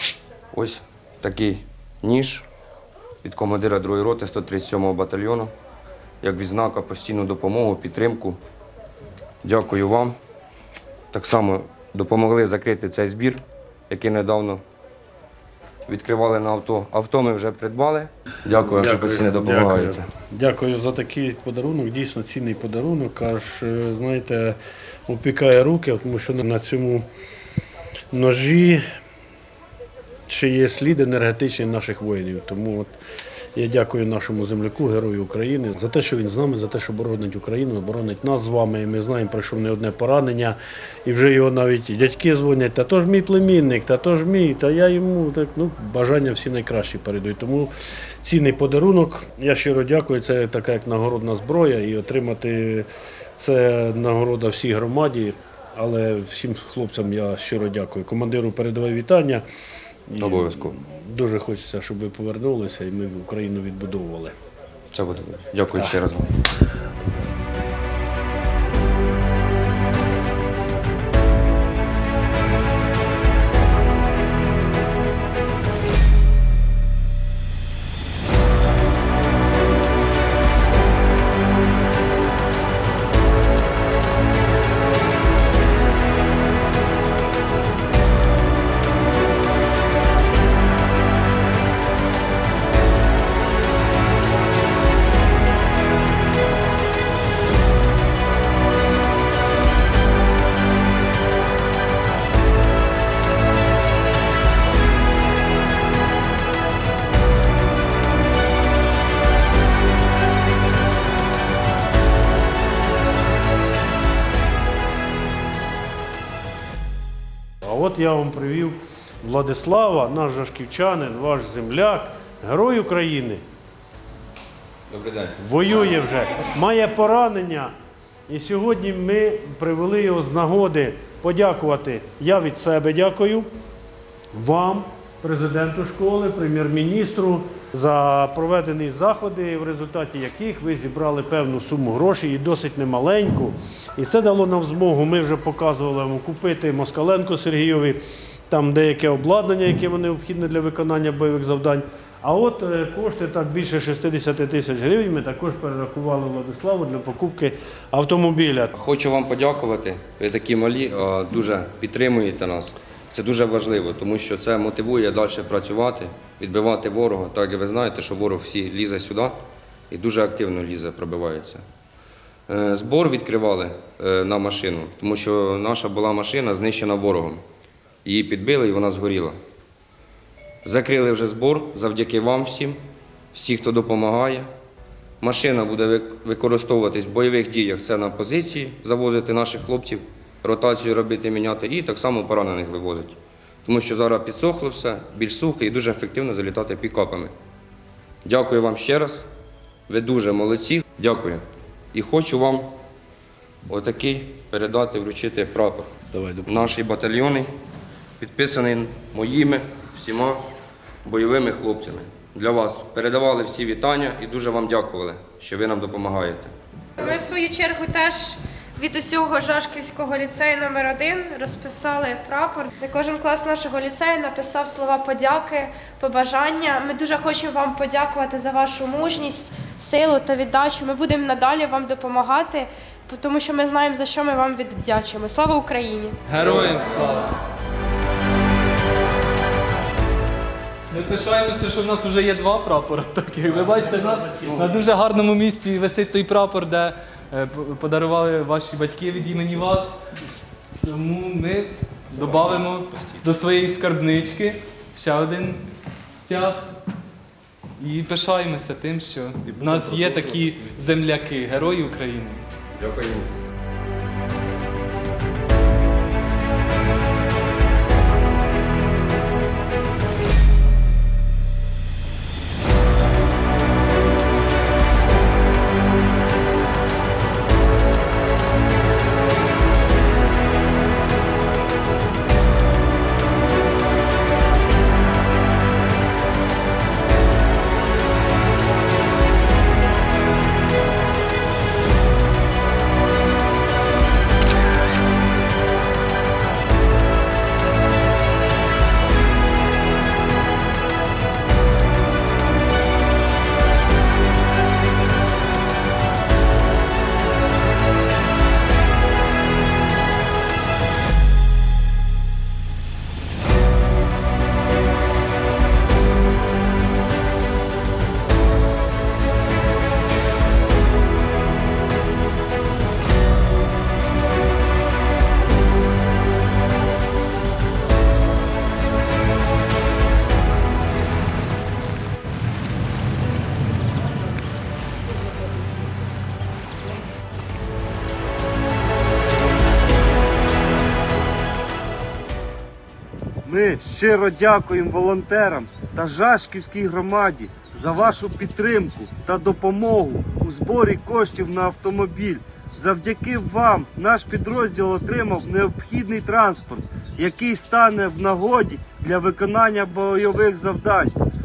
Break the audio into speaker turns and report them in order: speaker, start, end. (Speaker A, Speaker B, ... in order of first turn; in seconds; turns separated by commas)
Speaker A: 0.5-2.5, Speaker A: 3.2-5.5, Speaker A: 6.2-8.4, Speaker A: 9.4-10.2, Speaker A: 11.1-14.6, Speaker A: 15.9-20.1, Speaker B: 18.7-24.6, Speaker B: 25.1-27.1, Speaker B: 28.1-28.8, Speaker B: 30.3-33.0, Speaker B: 33.5-47.7, Speaker B: 48.2-59.4, Speaker B: 60.1-64.3, Speaker A: 60.2-60.8, Speaker A: 64.9-66.3, Speaker B: 117.6-123.4, Speaker A: 124.9-125.3, Speaker B: 125.4-127.7, Speaker B: 128.3-133.5, Speaker B: 134.3-158.7, Speaker A: 158.7-169.4, Speaker A: 169.9-171.6, Speaker A: 172.5-177.4, Speaker A: 178.0-179.3, Speaker A: 180.6-182.8, Speaker A: 183.3-184.5, Speaker A: 185.2-197.3, Speaker A: 198.2-199.2, Speaker A: 199.9-201.4, Speaker A: 201.9-202.7, Speaker A: 203.7-205.9, Speaker B: 206.1-206.6, Speaker A: 206.4-207.5, Speaker A: 208.2-210.4, Speaker A: 211.0-216.5, Speaker C: 217.0-236.2, Speaker D: 236.3-237.3, Speaker D: 240.9-249.9, Speaker A: 244.4-244.7, Speaker D: 250.8-255.6, Speaker A: 252.4-253.2, Speaker D: 256.2-256.7, Speaker D: 257.8-262.5, Speaker A: 262.8-263.3, Speaker E: 343.4-361.1